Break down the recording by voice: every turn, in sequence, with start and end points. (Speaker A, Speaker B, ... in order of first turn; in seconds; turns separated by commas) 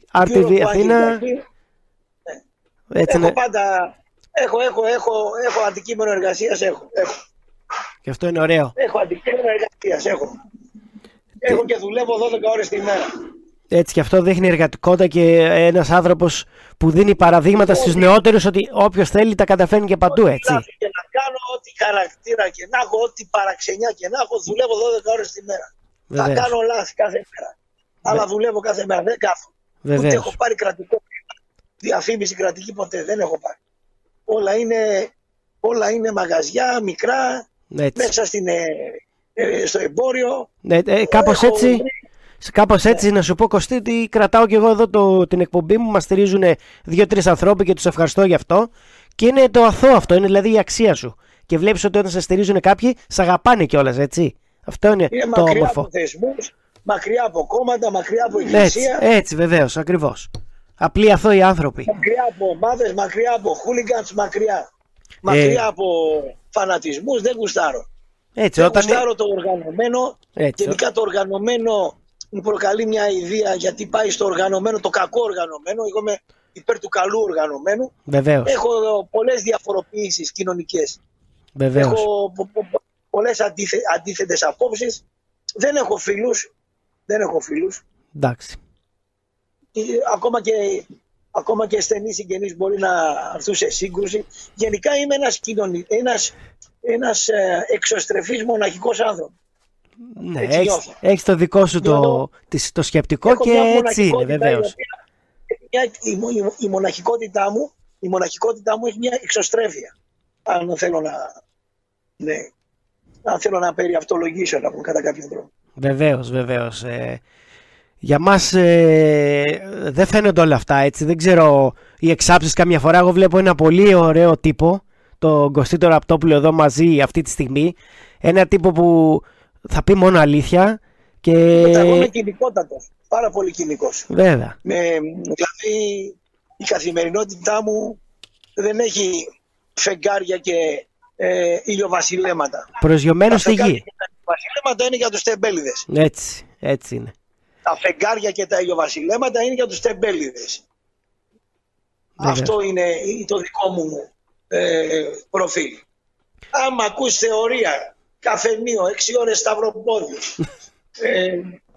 Speaker A: 0.1-1.2, Speaker B: 0.2-1.4, Speaker A: 2.9-3.4, Speaker B: 3.0-7.1, Speaker A: 8.1-8.8, Speaker B: 8.8-10.3, Speaker B: 11.4-13.1, Speaker A: 13.7-20.6, Speaker B: 17.5-18.1, Speaker B: 20.1-31.1, Speaker A: 26.1-26.5, Speaker A: 29.8-30.4, Speaker B: 31.8-33.6, Speaker B: 34.3-35.1, Speaker B: 35.6-37.5, Speaker A: 37.7-38.1, Speaker B: 38.0-40.5, Speaker A: 40.6-41.9, Speaker B: 41.1-41.9, Speaker A: 42.4-55.9, Speaker B: 55.1-59.0, Speaker A: 58.5-61.9, Speaker B: 61.9-64.7, Speaker B: 65.2-67.9, Speaker A: 65.3-65.6, Speaker A: 68.4-69.0, Speaker B: 68.6-77.9, Speaker A: 70.4-70.8, Speaker A: 78.1-78.5, Speaker B: 78.5-81.0, Speaker A: 81.6-82.0, Speaker B: 81.8-85.0, Speaker B: 85.6-86.5, Speaker B: 87.1-87.8, Speaker A: 88.2-88.6, Speaker B: 89.8-99.3, Speaker A: 100.2-104.7, Speaker B: 100.4-101.0, Speaker B: 101.8-102.2, Speaker B: 103.3-104.9, Speaker B: 105.5-109.9, Speaker B: 110.5-111.3, Speaker B: 112.2-112.5, Speaker B: 113.2-115.5, Speaker A: 115.8-117.2, Speaker A: 118.0-132.1, Speaker B: 131.6-134.1, Speaker A: 134.1-134.6, Speaker B: 134.7-138.0, Speaker B: 138.6-139.3, Speaker B: 139.8-142.7, Speaker A: 142.8-143.8, Speaker B: 143.3-145.9, Speaker A: 145.9-147.1, Speaker B: 147.7-150.7, Speaker B: 152.2-155.8, Speaker A: 152.2-152.5, Speaker B: 156.5-160.3, Speaker B: 161.0-161.4